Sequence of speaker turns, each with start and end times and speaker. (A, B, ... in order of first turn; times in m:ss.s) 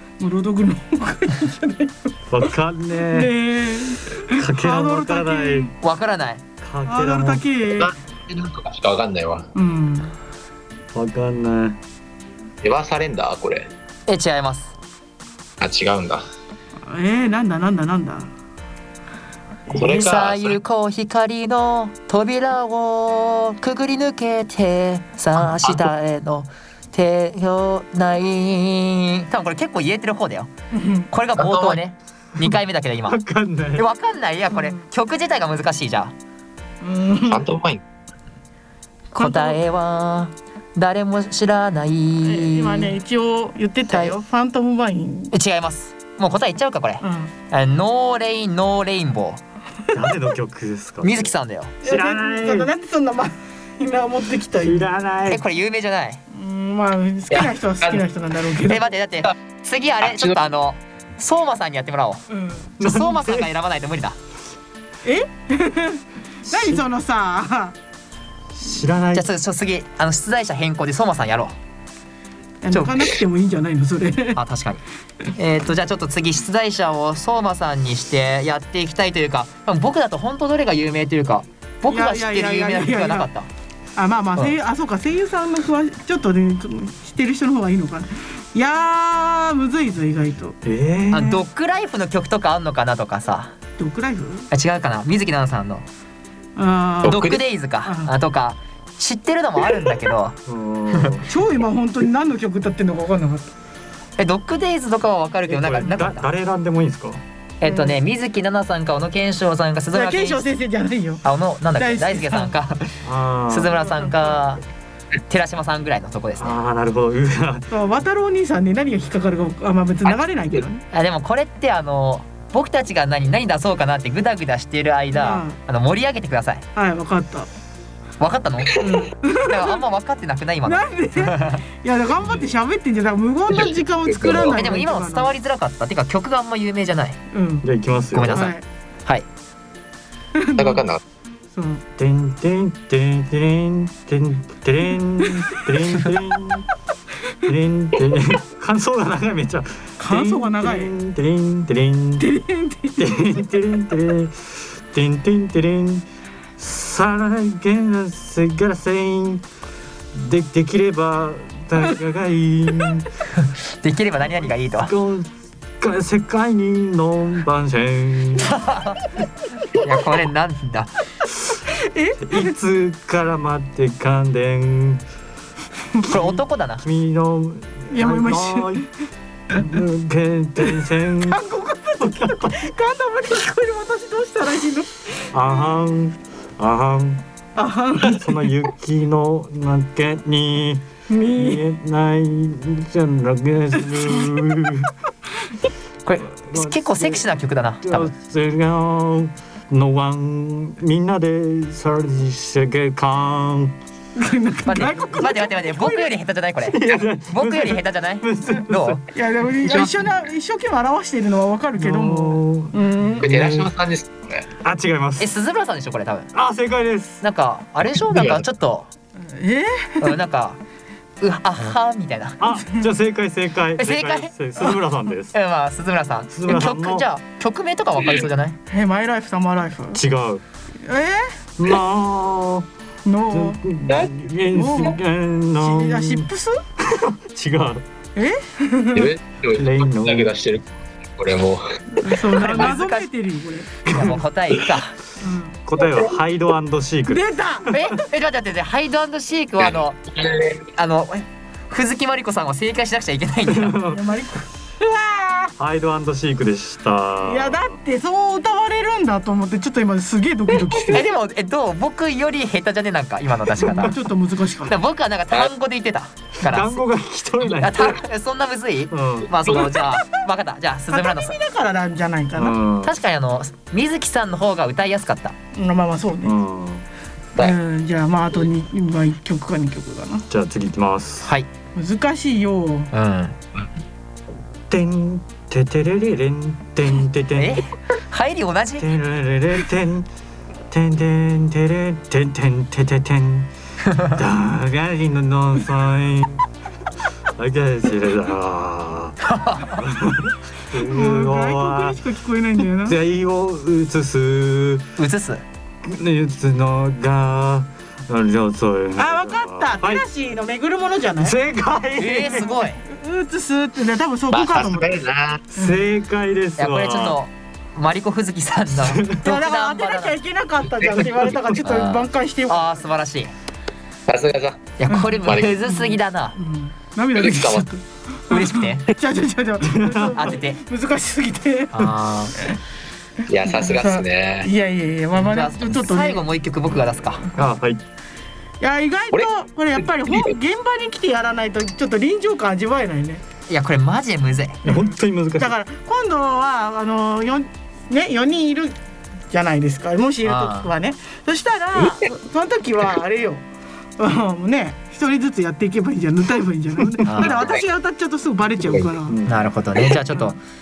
0:00.2-0:02.1 A
0:02.3-0:03.3 B
0:03.1-0:05.7 A
0:04.4-0:05.7 B
0:05.8-0:06.4 C
0:06.6-0:07.4 B
0:06.8-0:07.9 A
0:07.8-0:09.5 D
0:09.6-0:10.1 A
0:10.9-0:11.8 B
0:12.6-0:13.7 D
0:14.1-0:14.7 C
0:15.6-0:16.2 D
0:16.8-0:18.3 A
0:19.7-0:20.6 D
0:19.8-0:30.5 C
0:25.4-0:25.9 D
0:30.7-0:31.1 A
0:31.1-0:33.2 C
0:31.4-0:31.8 D
0:33.0-0:33.9 B
0:33.8-0:36.1 C
0:34.5-0:34.8 A
0:36.8-0:37.4 A
0:37.3-0:37.8 D
0:39.1-0:43.0 C
0:39.2-0:39.6 A
0:42.2-0:45.3 A
0:43.9-0:44.2 C
0:45.3-0:49.4 C
0:47.0-0:47.3 A
0:49.9-0:52.7 B
0:51.0-0:51.7 C
0:51.8-0:55.1 A
0:54.6-0:55.4 B
0:55.3-0:56.2 C
0:56.3-0:58.9 A
0:57.3-0:58.0 D
0:58.6-1:02.2 C
1:00.0-1:00.4 D
1:02.3-1:02.7 A
1:02.8-1:03.5 B
1:02.8-1:04.2 C
1:05.0-1:07.8 A
1:08.5-1:09.3 B
1:09.1-1:11.6 C
1:12.6-1:14.4 A
1:12.7-1:13.1 C
1:14.4-1:23.5 C
1:21.9-1:23.3 A
1:24.0-1:30.6 A
1:30.6-1:31.4 B
1:31.1-1:33.5 C
1:33.8-1:34.5 A
1:34.5-1:35.8 C
1:36.6-1:37.2 A
1:37.0-1:37.4 D
1:37.0-1:40.4 C
1:37.8-1:38.1 A
1:40.5-1:41.2 B
1:40.9-1:41.2 C
1:41.2-1:43.5 A
1:44.2-1:46.3 C
1:45.5-1:47.2 B
1:47.6-1:50.5 C
1:47.6-1:48.0 A
1:49.9-1:51.2 A
1:51.2-1:53.0 C
1:51.8-1:52.6 A
1:53.0-1:53.8 B
1:53.5-1:54.6 C
1:53.9-1:54.4 A
1:55.3-1:56.6 C
1:56.4-1:57.7 B
1:57.7-2:00.8 A
2:00.1-2:00.6 D
2:00.9-2:06.6 C
2:05.1-2:05.6 A
2:06.8-2:07.5 A
2:08.2-2:08.8 C
2:08.8-2:09.8 A
2:09.5-2:11.6 C
2:10.6-2:15.3 A
2:13.5-2:14.7 D
2:14.5-2:17.2 C
2:17.3-2:17.7 A
2:17.6-2:18.5 B
2:18.1-2:18.6 C
2:18.3-2:18.6 A
2:20.4-2:20.8 A
2:20.6-2:21.0 D
2:21.5-2:21.8 A
2:22.0-2:26.7 B
2:27.4-2:32.2 B
2:30.0-2:30.9 A
2:32.2-2:33.2 A
2:33.0-2:36.0 B
2:36.6-2:39.4 B
2:40.1-2:43.1 B
2:43.8-2:44.9 C
2:44.5-2:48.5 B
2:48.4-2:49.0 C
2:49.8-2:51.0 C
2:51.6-2:52.5 A
2:52.2-2:55.0 B
2:56.0-2:56.8 C
2:56.8-2:58.8 B
2:57.9-2:58.9 A
2:59.5-3:01.4 B
3:01.3-3:05.7 A
3:02.0-3:02.6 B
3:05.3-3:07.2 B
3:07.6-3:08.2 A
3:08.0-3:14.9 B
3:11.1-3:11.7 A
3:16.0-3:18.1 C
3:16.5-3:17.3 B
3:17.8-3:23.8 B
3:24.2-3:26.1 A
3:24.7-3:29.0 C
3:26.6-3:29.0 B
3:29.1-3:33.2 A
3:29.6-3:29.9 D
3:31.8-3:33.7 B
3:33.2-3:34.5 D
3:34.6-3:35.3 B
3:35.2-3:36.3 C
3:36.3-3:37.2 B
3:37.2-3:38.9 C
3:37.9-3:38.4 D
3:39.2-3:40.2 A
3:40.0-3:40.6 C
3:41.2-3:42.4 C
3:42.4-3:45.4 B
3:43.8-3:44.8 C
3:45.3-3:48.6 C
3:46.3-3:47.1 B
3:48.7-3:50.0 A
3:50.0-3:50.4 B
3:50.8-3:51.3 A
3:51.6-3:52.7 B
3:53.0-3:53.6 A
3:53.3-3:56.3 B
3:54.5-3:55.0 A
3:55.6-3:56.6 A
3:56.8-3:57.8 B
3:58.2-3:59.1 A
3:59.0-4:01.6 D
3:59.5-4:00.3 B
4:02.0-4:03.8 A
4:02.2-4:02.7 D
4:02.4-4:03.1 C
4:03.9-4:04.2 B
4:03.9-4:05.0 C
4:05.2-4:05.6 A
4:05.7-4:07.9 B
4:07.1-4:07.8 A
4:07.7-4:10.0 C
4:09.6-4:10.7 D
4:10.7-4:13.8 C
4:13.5-4:14.0 B
4:13.9-4:15.5 A
4:15.6-4:17.6 B
4:17.2-4:21.1 A
4:20.9-4:24.0 C
4:23.6-4:24.8 A
4:24.7-4:26.8 C
4:26.4-4:27.9 B
4:27.6-4:31.4 C
4:28.9-4:29.3 B
4:29.4-4:29.8 D
4:29.5-4:29.8 A
4:30.9-4:32.6 A
4:32.4-4:33.0 B
4:32.8-4:35.4 C
4:35.5-4:36.3 A
4:36.2-4:36.9 B
4:37.4-4:40.3 A
4:40.3-4:41.3 B
4:41.8-4:42.9 A
4:42.9-4:43.4 C
4:44.7-4:47.6 B
4:47.3-4:48.9 C
4:48.8-4:50.1 B
4:50.7-4:53.5 B
4:54.1-4:56.4 B
4:57.4-4:59.2 B
4:59.3-4:59.8 C
4:59.8-5:02.0 B
5:00.8-5:03.0 A
5:02.8-5:04.9 B
5:05.0-5:05.4 C
5:05.8-5:10.0 B
5:09.0-5:11.4 A
5:11.2-5:12.5 B
5:12.0-5:12.8 C
5:12.2-5:15.0 A
5:14.3-5:15.4 D
5:15.5-5:17.2 B
5:16.6-5:20.2 C
5:18.8-5:19.2 B
5:19.2-5:22.8 A
5:21.4-5:23.3 C
5:24.1-5:24.7 D
5:24.8-5:26.4 C
5:24.9-5:31.9 A
5:25.3-5:25.5 D
5:27.2-5:27.7 D
5:28.3-5:28.9 C
5:29.6-5:30.1 B
5:30.1-5:30.6 C
5:31.7-5:32.4 C
5:33.3-5:34.5 D
5:33.5-5:36.2 A
5:35.2-5:37.3 C
5:36.8-5:37.1 A
5:37.4-5:37.8 B
5:38.6-5:43.2 A
5:39.1-5:40.3 D
5:43.5-5:44.6 C
5:44.6-5:45.5 B
5:44.7-5:48.8 A
5:49.3-5:53.4 A
5:50.2-5:50.7 C
5:51.8-5:52.0 D
5:54.0-5:59.2 A
5:57.1-5:57.5 C
5:57.2-5:57.6 D
5:59.1-5:59.5 B
5:59.3-6:00.4 C
6:00.1-6:00.4 A